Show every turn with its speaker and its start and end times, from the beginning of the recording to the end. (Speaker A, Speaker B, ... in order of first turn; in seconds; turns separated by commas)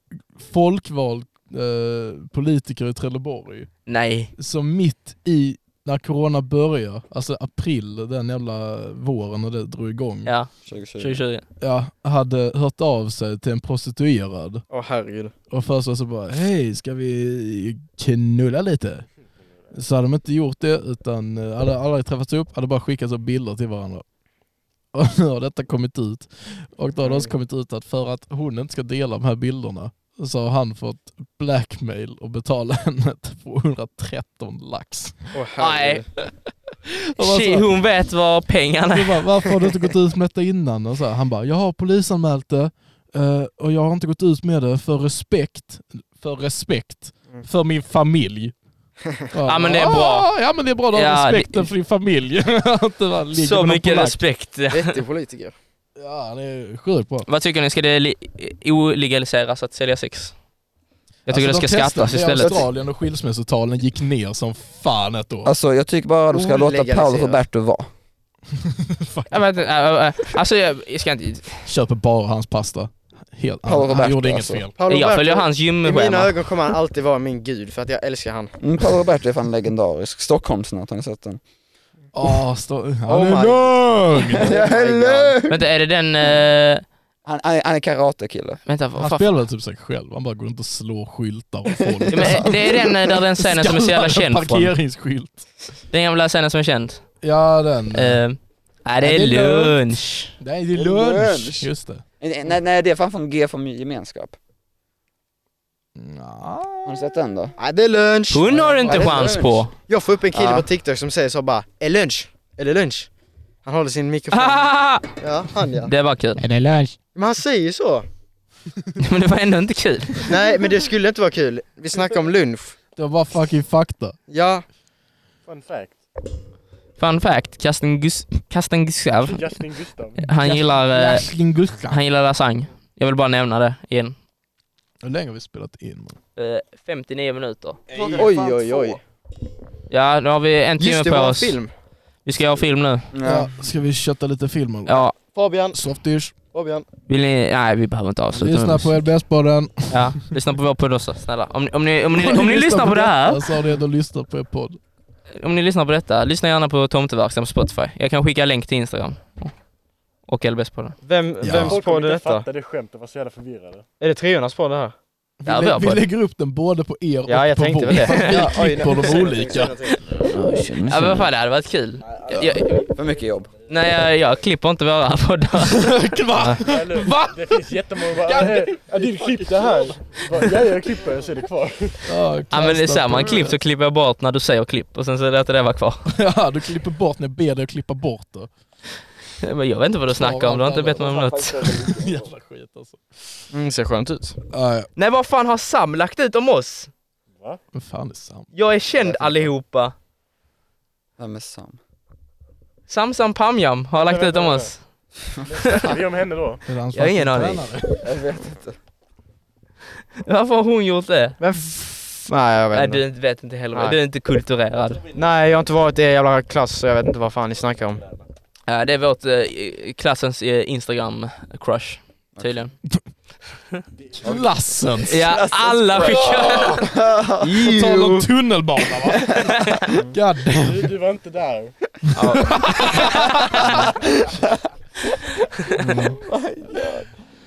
Speaker A: 0.3-3.7, Speaker B: 3.9-4.3, Speaker A: 4.4-10.3, Speaker B: 10.3-11.4, Speaker C: 10.7-11.2, Speaker A: 11.6-14.6, Speaker D: 14.7-15.3, Speaker A: 15.5-19.1, Speaker A: 19.7-24.0, Speaker A: 24.9-35.4, Speaker D: 27.0-27.3, Speaker D: 35.3-36.1, Speaker B: 35.6-36.0, Speaker A: 37.1-37.7, Speaker B: 37.2-39.3, Speaker A: 38.9-48.5, Speaker A: 49.3-54.2, Speaker B: 49.5-50.3, Speaker B: 50.9-51.7, Speaker B: 53.4-55.0, Speaker D: 54.7-55.5, Speaker A: 56.0-57.3, Speaker B: 57.3-60.4, Speaker A: 61.3-65.5, Speaker B: 61.3-62.6, Speaker C: 65.5-67.9, Speaker D: 66.3-67.4, Speaker A: 68.6-69.4, Speaker B: 69.3-71.6, Speaker A: 71.7-74.8, Speaker C: 73.7-74.7, Speaker D: 74.8-78.6, Speaker B: 74.9-76.4, Speaker C: 78.6-81.4, Speaker A: 82.1-84.6, Speaker D: 83.1-85.4, Speaker C: 84.4-85.6, Speaker B: 85.5-86.8, Speaker C: 87.2-88.6, Speaker B: 88.7-89.3, Speaker A: 89.0-95.5, Speaker C: 91.7-92.5, Speaker B: 92.1-94.7, Speaker B: 95.9-97.1, Speaker A: 97.2-98.2, Speaker B: 97.9-100.3, Speaker A: 99.0-99.8, Speaker A: 100.4-102.0, Speaker C: 100.7-101.7, Speaker C: 102.2-104.4, Speaker A: 106.0-107.0, Speaker C: 106.8-107.5, Speaker D: 107.6-109.1, Speaker B: 108.3-109.7, Speaker C: 108.8-109.7, Speaker D: 109.9-113.1, Speaker C: 110.3-110.7, Speaker D: 113.6-115.9, Speaker B: 114.3-115.1, Speaker B: 115.8-116.4, Speaker A: 116.4-117.0, Speaker D: 117.2-118.1, Speaker B: 119.0-120.4, Speaker D: 120.2-122.8, Speaker A: 123.0-124.2, Speaker D: 124.3-124.7, Speaker E: 125.5-126.0, Speaker B: 127.0-129.6, Speaker E: 129.2-130.3, Speaker B: 130.2-131.3, Speaker A: 130.3-132.0, Speaker B: 131.9-134.2, Speaker A: 135.0-136.2, Speaker B: 136.4-137.8, Speaker D: 138.0-139.0, Speaker B: 139.9-141.6, Speaker D: 140.8-141.7, Speaker B: 142.2-143.1, Speaker C: 143.1-143.5, Speaker A: 143.2-145.1, Speaker B: 144.9-145.1, Speaker D: 145.3-145.8, Speaker A: 145.7-146.3, Speaker D: 146.5-146.9, Speaker B: 147.1-149.0, Speaker A: 148.3-150.3, Speaker B: 149.9-153.6, Speaker A: 152.1-154.8, Speaker B: 155.4-159.5, Speaker B: 160.3-161.0, Speaker D: 161.0-162.5, Speaker A: 161.4-161.8, Speaker E: 161.5-163.8, Speaker D: 164.0-164.9, Speaker A: 165.4-170.1, Speaker B: 165.5-166.0, Speaker D: 167.3-170.0, Speaker B: 168.0-169.0, Speaker B: 170.2-172.9, Speaker C: 170.3-171.3, Speaker A: 172.3-172.6, Speaker C: 172.9-173.5, Speaker B: 173.7-175.9, Speaker A: 175.6-178.8, Speaker D: 176.4-176.6, Speaker E: 176.6-182.1, Speaker A: 182.1-183.6, Speaker B: 182.5-186.1, Speaker A: 186.1-188.5, Speaker B: 189.4-191.7, Speaker A: 190.1-191.3, Speaker C: 191.0-192.3, Speaker A: 191.8-193.0, Speaker D: 193.5-194.4, Speaker A: 194.5-194.9, Speaker B: 195.0-196.9, Speaker E: 197.3-197.6, Speaker A: 197.7-198.5, Speaker B: 198.5-199.9, Speaker C: 199.0-199.5, Speaker C: 201.2-201.8, Speaker B: 202.9-204.8, Speaker E: 204.0-204.7, Speaker E: 205.4-206.6, Speaker B: 205.6-206.0, Speaker A: 206.7-208.1, Speaker B: 206.9-207.7, Speaker C: 208.0-208.8, Speaker B: 210.2-211.4, Speaker D: 211.4-213.0, Speaker B: 212.7-215.1, Speaker D: 215.1-218.1, Speaker B: 218.7-222.7, Speaker E: 223.9-224.8, Speaker C: 224.2-224.5, Speaker A: 224.2-225.2, Speaker C: 225.0-227.5, Speaker B: 225.1-226.8, Speaker A: 226.0-226.9, Speaker A: 227.4-230.9, Speaker D: 227.6-228.3, Speaker B: 229.5-229.8, Speaker E: 230.5-231.7, Speaker A: 232.1-233.9, Speaker B: 232.2-233.8, Speaker C: 235.7-237.1, Speaker A: 235.8-236.2